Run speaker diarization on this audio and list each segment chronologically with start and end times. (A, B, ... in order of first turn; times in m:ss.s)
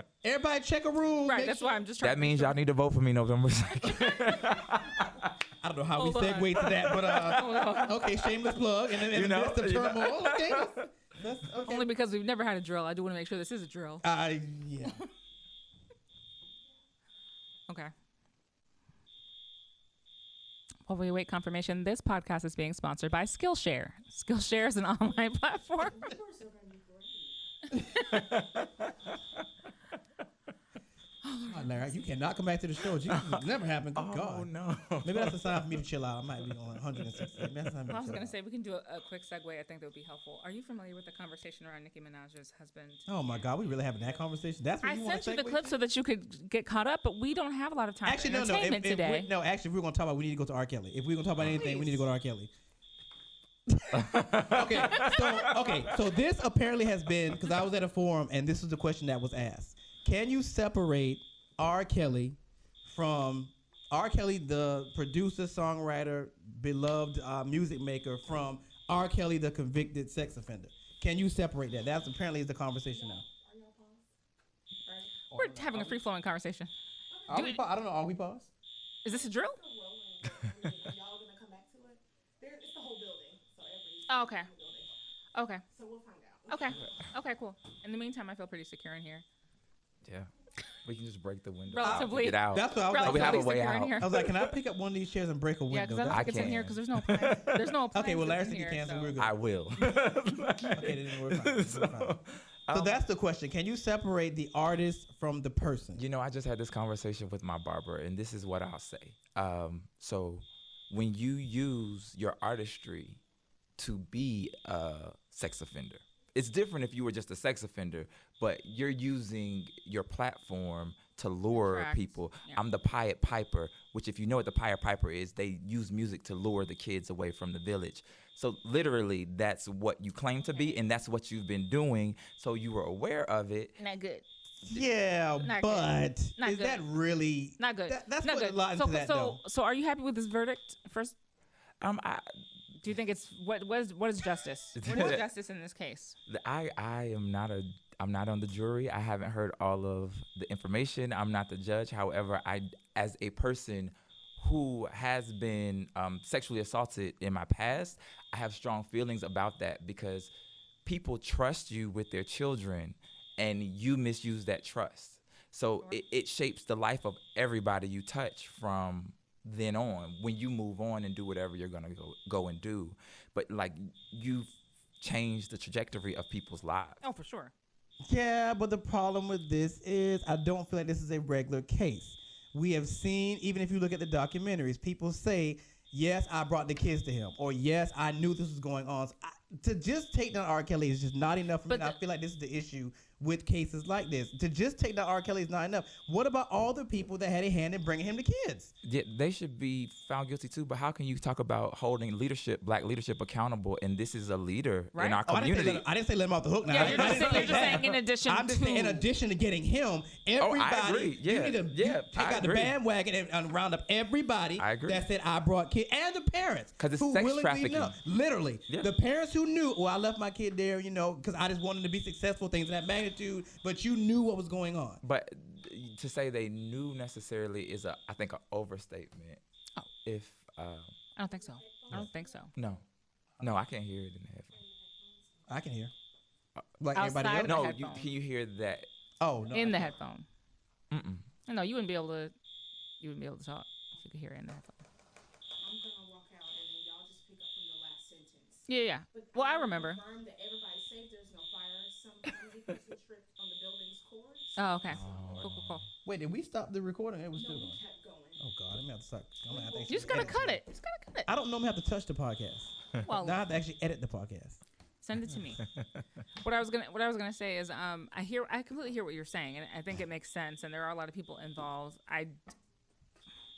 0:00.2-0:01.8 A
0:01.2-0:02.6 B
0:02.0-0:05.2 C
0:05.6-0:11.9 A
0:05.9-0:08.1 B
0:06.8-0:07.8 C
0:08.9-0:10.9 C
0:11.6-0:14.0 B
0:14.0-0:15.0 A
0:20.8-0:26.1 B
0:25.8-0:27.3 D
0:27.8-0:28.2 B
0:28.1-0:29.1 C
0:31.2-0:32.1 B
0:31.5-0:34.5 A
0:33.1-0:35.8 C
0:35.0-0:38.3 A
0:37.0-0:37.5 C
0:37.9-0:43.1 B
0:43.1-0:45.7 A
0:44.8-0:49.3 B
0:48.0-0:52.5 A
0:51.5-0:52.0 B
0:53.7-1:13.2 A
0:53.9-0:56.0 C
1:12.9-1:14.0 D
1:14.8-1:15.2 D
1:15.3-1:16.0 A
1:15.3-1:16.7 B
1:17.3-1:18.5 A
1:17.3-1:17.6 B
1:19.0-1:19.6 B
1:19.0-1:24.9 D
1:24.1-1:24.5 B
1:25.3-1:25.6 B
1:25.7-1:26.8 D
1:26.5-1:29.2 B
1:30.8-1:34.4 C
1:31.7-1:34.2 B
1:31.8-1:36.7 A
1:35.7-1:39.2 B
1:36.0-1:37.7 C
1:37.9-1:39.9 A
1:39.2-1:43.0 C
1:40.7-1:42.2 A
1:42.7-1:46.0 A
1:45.9-1:53.2 C
1:53.8-2:13.8 C
2:01.5-2:02.6 B
2:13.8-2:14.2 B
2:14.7-2:19.4 A
2:15.4-2:16.8 B
2:17.6-2:21.2 B
2:21.8-2:22.2 C
2:22.8-2:26.2 B
2:24.8-2:25.2 C
2:24.9-2:25.2 A
2:26.3-2:40.3 C
2:40.8-2:57.0 C
2:57.0-2:57.5 B
2:58.0-3:18.7 A
3:11.7-3:12.0 B
3:18.8-3:25.8 C
3:24.9-3:25.2 B
3:25.3-3:45.0 A
3:26.7-3:29.0 B
3:26.8-3:27.8 C
3:30.4-3:32.8 C
3:34.6-3:35.0 C
3:36.8-3:38.0 C
3:45.0-3:49.4 C
3:50.0-3:51.0 C
3:51.2-3:52.5 B
3:51.6-3:51.9 D
3:52.5-3:52.8 C
3:53.4-3:54.6 C
3:55.5-3:55.9 A
3:56.8-3:57.6 A
3:56.9-3:58.1 B
3:57.4-3:58.9 C
3:59.2-4:00.0 A
3:59.5-4:00.3 B
4:00.9-4:01.3 C
4:01.4-4:02.3 B
4:03.0-4:04.8 B
4:05.6-4:15.2 D
4:08.7-4:10.0 B
4:14.6-4:15.8 B
4:14.9-4:15.8 C
4:16.0-4:17.8 A
4:17.3-4:18.4 D
4:18.4-4:20.6 A
4:19.5-4:20.4 D
4:19.9-4:21.3 B
4:21.2-4:24.6 A
4:23.0-4:23.4 B
4:25.0-4:25.6 B
4:26.4-4:32.4 B